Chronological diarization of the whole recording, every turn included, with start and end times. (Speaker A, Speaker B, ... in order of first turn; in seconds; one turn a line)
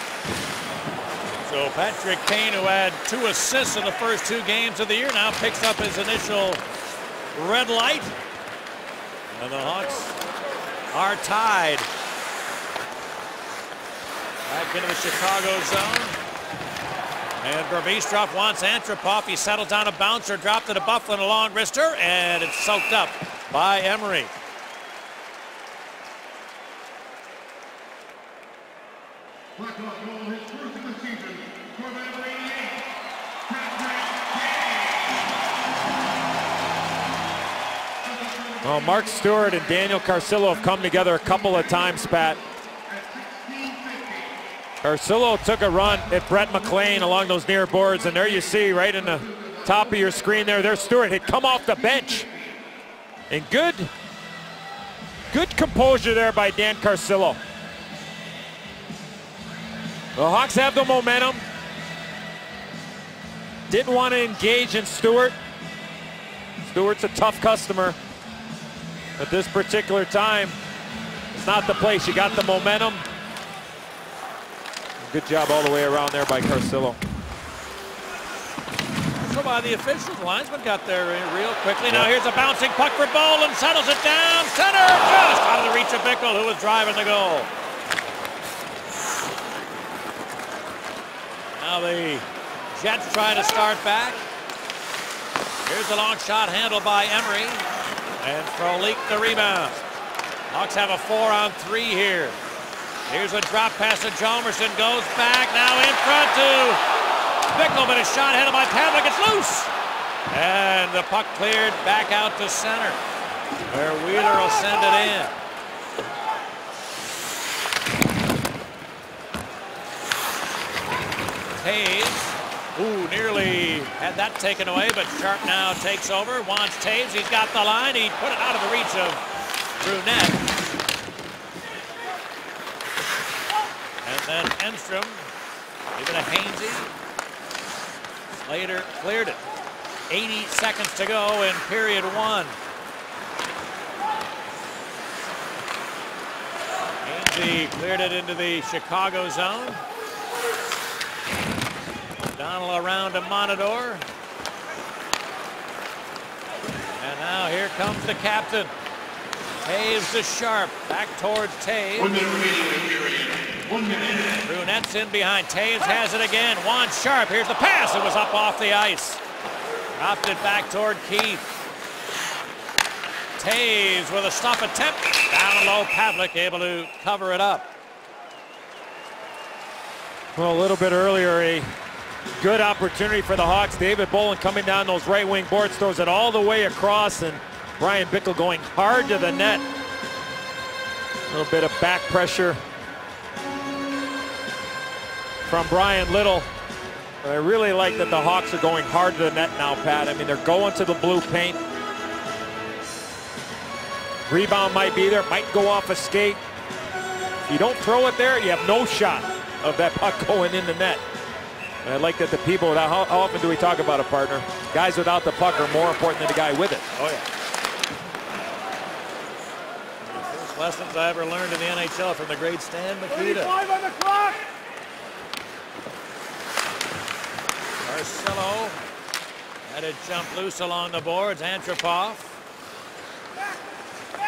Speaker A: 1.4-6.6
Speaker A: 7.3-8.2
Speaker A: 9.3-10.2
Speaker A: 10.9-11.9
Speaker A: 14.5-16.2
Speaker A: 17.4-24.3
Speaker B: 29.6-32.4
Speaker B: 33.5-34.3
Speaker C: 38.6-42.4
Speaker B: 43.0-44.3
Speaker C: 44.8-52.3
Speaker B: 52.2-52.5
Speaker C: 53.3-53.9
Speaker C: 55.3-57.4
Speaker C: 60.1-61.4
Speaker C: 63.7-65.4
Speaker C: 66.6-68.0
Speaker C: 69.2-70.6
Speaker C: 71.3-73.0
Speaker C: 75.0-77.0
Speaker A: 79.2-87.5
Speaker A: 91.5-94.2
Speaker A: 95.7-97.7
Speaker A: 98.2-99.8
Speaker A: 100.5-102.4
Speaker A: 103.1-106.8
Speaker A: 107.5-109.7
Speaker A: 110.3-113.0
Speaker A: 113.7-115.3
Speaker A: 121.6-129.2
Speaker A: 129.8-130.4
Speaker A: 134.0-135.3
Speaker A: 135.9-136.9
Speaker A: 138.4-139.4
Speaker A: 140.1-142.6
Speaker A: 147.0-149.8
Speaker A: 152.3-154.1
Speaker A: 157.0-158.7
Speaker A: 159.7-162.6
Speaker A: 164.4-169.2
Speaker A: 169.9-171.5
Speaker A: 173.4-177.7
Speaker C: 180.4-181.7
Speaker C: 182.4-189.6
Speaker C: 191.3-192.6
Speaker C: 195.5-196.5
Speaker C: 197.2-201.6
Speaker C: 204.3-206.4
Speaker C: 207.5-211.0
Speaker C: 211.8-216.9
Speaker A: 216.9-217.3
Speaker A: 220.0-223.7
Speaker A: 227.8-228.8
Speaker A: 229.7-232.3